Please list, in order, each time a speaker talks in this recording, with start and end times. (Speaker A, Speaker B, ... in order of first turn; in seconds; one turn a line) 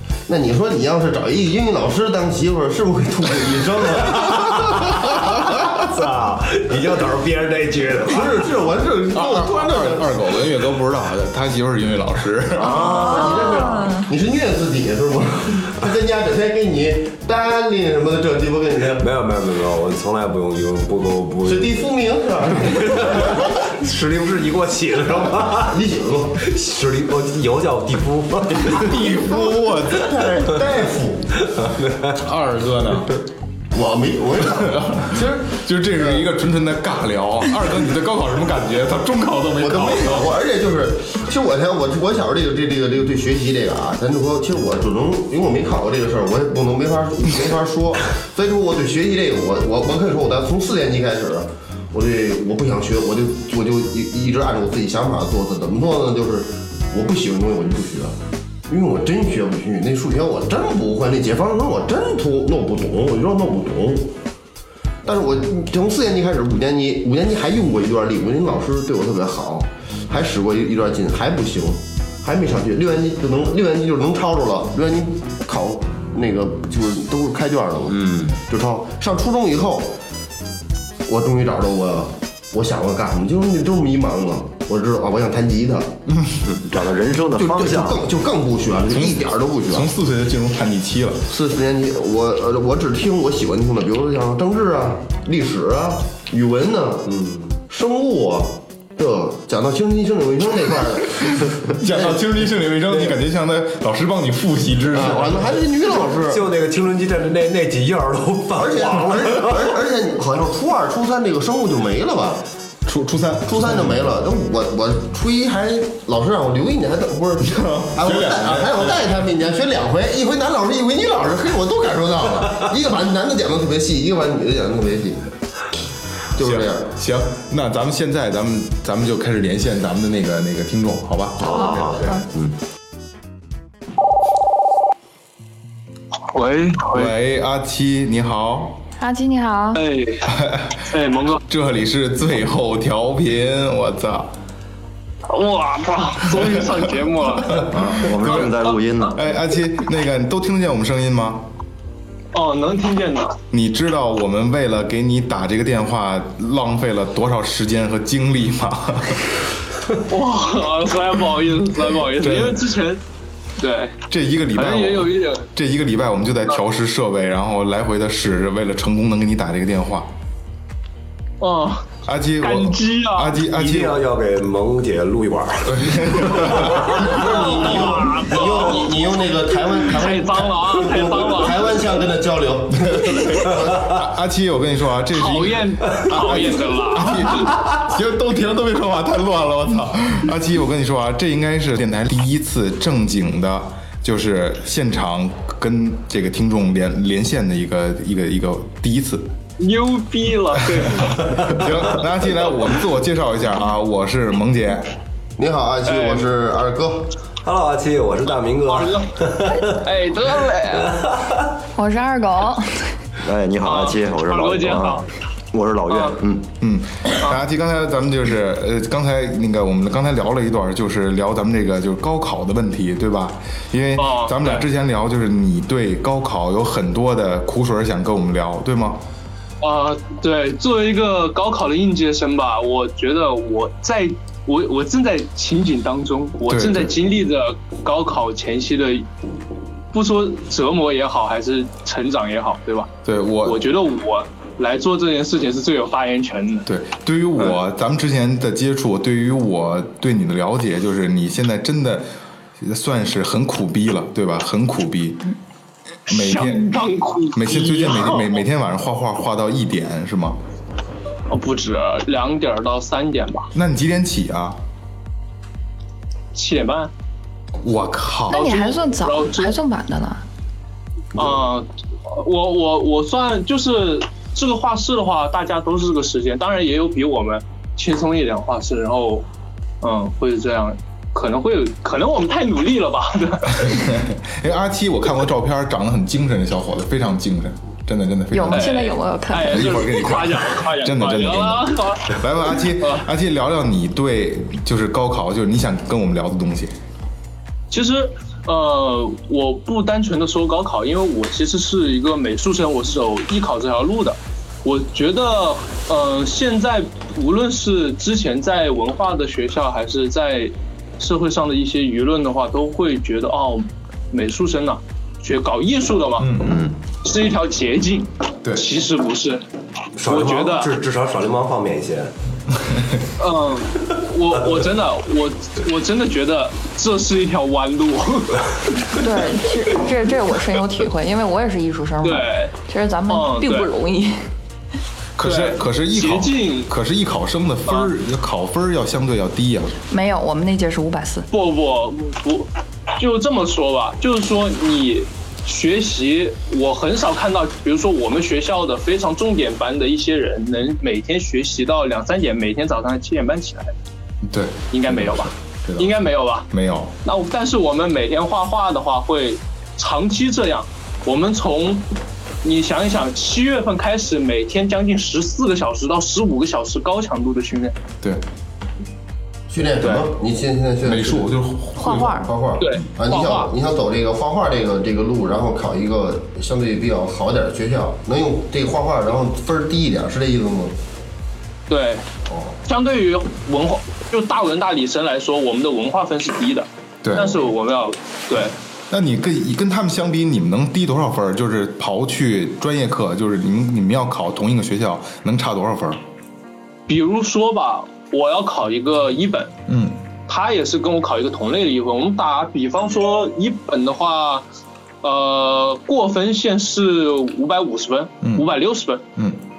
Speaker A: 0.3-4.8
Speaker B: 4.2-8.5
Speaker A: 8.1-10.1
Speaker C: 9.1-13.2
Speaker A: 12.7-19.1
Speaker D: 12.8-14.1
Speaker B: 19.0-21.8
Speaker A: 21.4-23.5
Speaker B: 22.6-25.7
Speaker A: 25.4-26.4
Speaker B: 26.4-28.9
Speaker C: 28.7-30.6
Speaker A: 29.1-31.3
Speaker C: 32.1-33.2
Speaker A: 33.7-36.3
Speaker C: 34.6-40.4
Speaker A: 39.6-58.1
Speaker A: 58.7-64.1
Speaker A: 65.0-80.0
Speaker E: 77.9-78.4
Speaker A: 81.1-86.0
Speaker C: 86.1-86.4
Speaker E: 86.4-88.1
Speaker A: 87.3-89.9
Speaker C: 88.9-91.2
Speaker A: 91.3-97.1
Speaker B: 97.1-97.5
Speaker A: 97.7-102.2
Speaker C: 101.7-105.5
Speaker B: 102.9-103.2
Speaker A: 104.9-106.5
Speaker B: 104.9-109.8
Speaker A: 108.5-112.4
Speaker C: 112.8-114.0
Speaker A: 113.5-125.2
Speaker C: 117.4-119.1
Speaker A: 126.3-126.9
Speaker C: 126.4-132.2
Speaker E: 131.4-132.5
Speaker F: 136.3-137.1
Speaker C: 136.9-138.8
Speaker D: 139.0-139.8
Speaker F: 139.7-140.3
Speaker C: 140.2-144.3
Speaker F: 140.9-141.4
Speaker F: 145.3-148.7
Speaker C: 147.5-148.5
Speaker E: 147.6-149.2
Speaker C: 149.1-151.4
Speaker F: 152.3-153.4
Speaker C: 153.5-159.3
Speaker F: 160.1-163.0
Speaker C: 162.2-162.7
Speaker F: 163.6-163.9
Speaker C: 164.1-170.1
Speaker F: 164.5-165.4
Speaker F: 171.4-173.4
Speaker C: 172.0-174.0
Speaker B: 173.4-177.2
Speaker C: 175.6-177.1
Speaker A: 176.8-183.9
Speaker F: 177.1-179.0
Speaker F: 179.9-181.7
Speaker C: 182.8-199.3
Speaker F: 185.1-187.5
Speaker F: 199.6-201.7
Speaker C: 200.6-204.9
Speaker A: 205.4-207.1
Speaker F: 205.9-206.3
Speaker B: 207.4-209.7
Speaker F: 208.7-211.0
Speaker D: 211.7-212.9
Speaker E: 213.2-216.5
Speaker F: 213.6-215.1
Speaker F: 215.9-216.2
Speaker C: 216.6-229.0
Speaker F: 223.9-224.6
Speaker F: 229.6-239.1
Speaker C: 236.5-237.0
Speaker F: 239.9-242.9
Speaker C: 243.0-243.6
Speaker F: 243.4-246.7
Speaker C: 246.7-252.1
Speaker C: 252.6-255.3
Speaker C: 256.1-256.7
Speaker F: 256.1-258.4
Speaker C: 257.3-260.4
Speaker F: 261.3-263.5
Speaker C: 263.5-264.6
Speaker F: 266.3-266.9
Speaker C: 267.6-268.4
Speaker F: 268.3-269.5
Speaker D: 268.3-270.2
Speaker F: 271.1-279.2
Speaker F: 279.8-283.9
Speaker C: 283.5-288.8
Speaker D: 288.3-290.1
Speaker F: 288.5-292.2
Speaker C: 289.5-296.7
Speaker F: 292.8-293.1
Speaker F: 297.7-316.3
Speaker C: 316.2-316.7
Speaker E: 316.4-316.7
Speaker F: 317.0-319.4
Speaker B: 320.0-322.1
Speaker F: 320.0-320.7
Speaker C: 322.6-323.0
Speaker F: 323.2-328.5
Speaker D: 328.9-334.3
Speaker F: 332.0-332.5
Speaker F: 333.1-333.7
Speaker C: 335.1-339.8
Speaker F: 335.2-336.7
Speaker F: 337.7-337.9
Speaker D: 339.9-341.3
Speaker F: 341.3-353.7
Speaker C: 354.2-355.9
Speaker F: 354.7-356.5
Speaker C: 356.5-356.9
Speaker F: 357.0-361.9
Speaker F: 362.4-367.8
Speaker A: 369.5-371.3
Speaker F: 369.8-370.1
Speaker C: 370.8-372.2
Speaker D: 371.8-372.3
Speaker A: 372.1-380.7
Speaker F: 372.6-373.5
Speaker F: 381.7-382.1
Speaker A: 382.3-382.5
Speaker F: 382.6-388.5
Speaker C: 387.0-387.4
Speaker C: 388.9-396.0
Speaker F: 396.9-399.5
Speaker C: 399.7-400.0
Speaker F: 400.3-404.4
Speaker F: 405.0-409.1
Speaker C: 408.2-408.5